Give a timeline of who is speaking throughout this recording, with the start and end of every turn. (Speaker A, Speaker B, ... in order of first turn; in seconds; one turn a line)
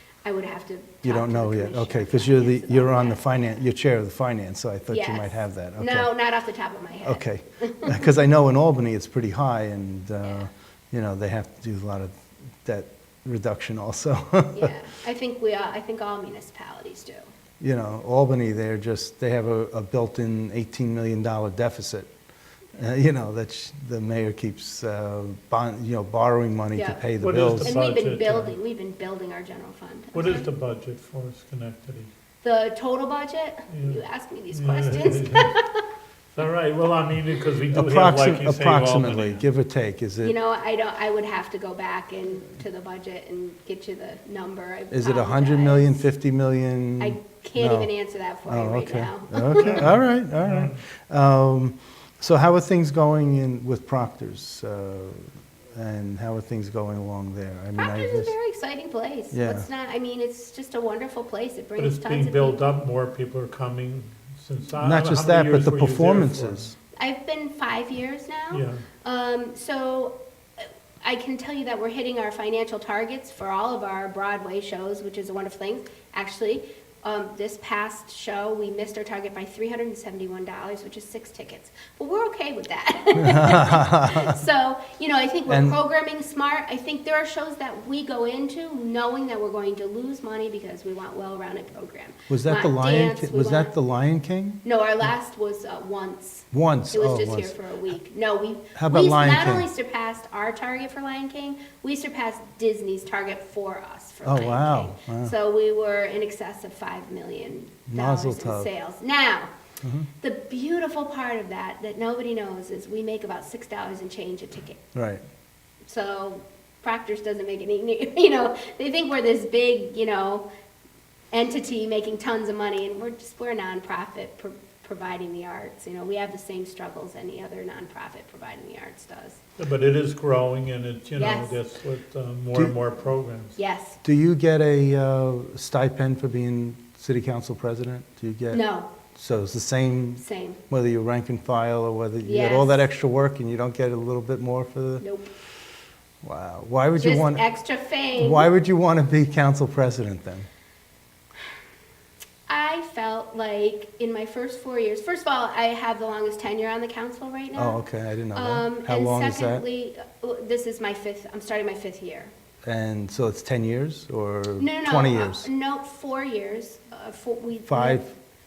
Speaker A: 0.2-3.2
Speaker B: 1.0-6.1
Speaker A: 4.9-8.1
Speaker B: 7.0-14.7
Speaker A: 14.5-17.2
Speaker B: 17.6-22.1
Speaker B: 22.7-27.8
Speaker A: 26.8-27.0
Speaker C: 27.2-28.6
Speaker A: 27.6-30.5
Speaker C: 30.1-32.1
Speaker A: 32.4-35.8
Speaker C: 33.7-35.5
Speaker C: 36.3-39.4
Speaker B: 37.7-40.4
Speaker A: 40.2-46.1
Speaker B: 44.9-47.9
Speaker A: 47.0-49.9
Speaker B: 48.5-58.3
Speaker C: 49.6-50.8
Speaker A: 57.7-62.6
Speaker B: 59.3-59.6
Speaker C: 61.8-66.6
Speaker B: 64.8-66.7
Speaker A: 67.0-70.1
Speaker C: 68.5-68.9
Speaker A: 71.0-93.7
Speaker B: 83.2-84.4
Speaker B: 85.5-85.8
Speaker B: 92.3-94.6
Speaker A: 94.6-109.5
Speaker B: 96.5-97.6
Speaker B: 98.7-99.7
Speaker B: 104.2-105.3
Speaker B: 107.9-108.7
Speaker B: 109.8-110.1
Speaker A: 110.2-114.8
Speaker B: 114.9-115.2
Speaker A: 115.9-120.5
Speaker A: 121.3-129.4
Speaker C: 129.6-133.6
Speaker A: 131.2-131.6
Speaker A: 133.6-134.0
Speaker B: 134.0-138.6
Speaker A: 138.5-138.9
Speaker B: 139.1-145.0
Speaker A: 140.2-140.6
Speaker A: 142.2-142.8
Speaker A: 145.0-145.3
Speaker B: 146.2-147.4
Speaker A: 147.0-148.5
Speaker B: 148.1-150.5
Speaker A: 152.5-162.3
Speaker B: 157.5-159.6
Speaker B: 162.6-165.5
Speaker A: 164.6-168.0
Speaker B: 167.7-168.1